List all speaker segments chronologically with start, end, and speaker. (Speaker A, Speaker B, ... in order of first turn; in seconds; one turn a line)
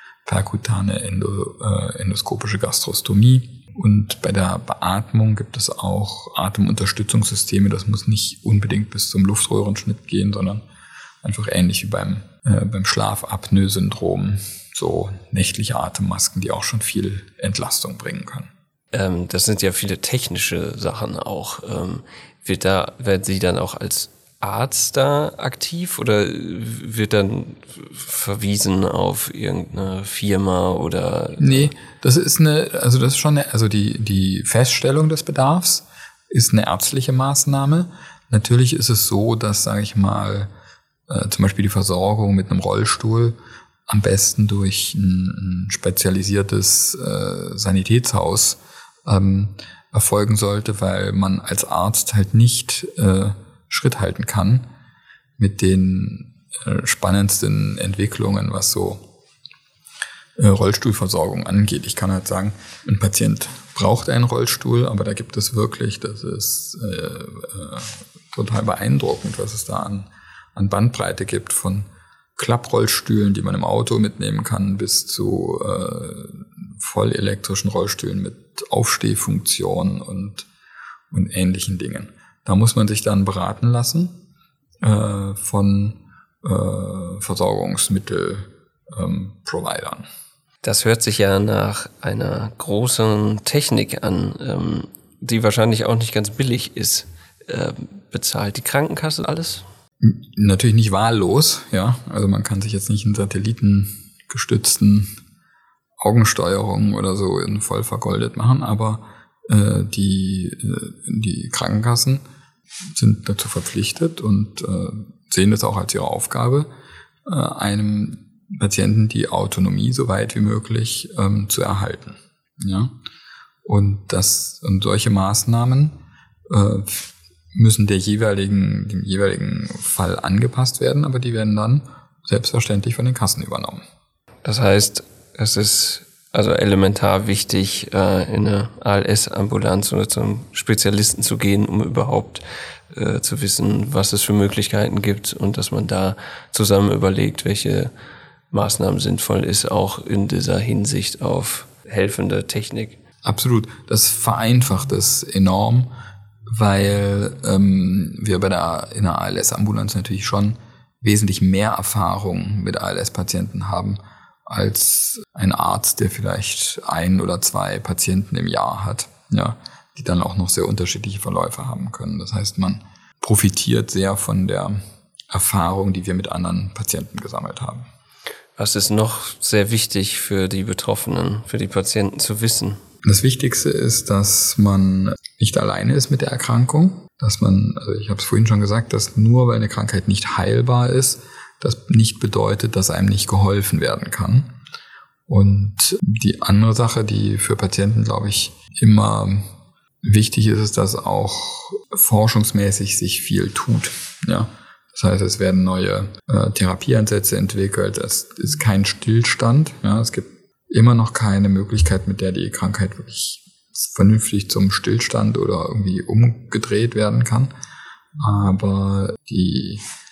Speaker A: 0.2-10.6
Speaker A: 11.2-18.5
Speaker B: 18.9-31.7
Speaker A: 31.4-40.5
Speaker A: 41.1-54.6
Speaker A: 55.4-59.0
Speaker A: 60.4-80.5
Speaker A: 81.1-84.2
Speaker A: 84.8-90.0
Speaker B: 90.6-99.6
Speaker A: 100.0-105.1
Speaker A: 106.0-112.2
Speaker A: 112.9-116.7
Speaker A: 117.2-122.9
Speaker A: 123.6-126.0
Speaker A: 126.5-133.8
Speaker B: 134.4-147.9
Speaker B: 148.5-153.0
Speaker A: 153.2-155.9
Speaker A: 156.5-177.8
Speaker B: 178.6-182.8
Speaker A: 183.0-194.5
Speaker A: 195.3-199.5
Speaker A: 200.0-217.5
Speaker A: 218.2-219.8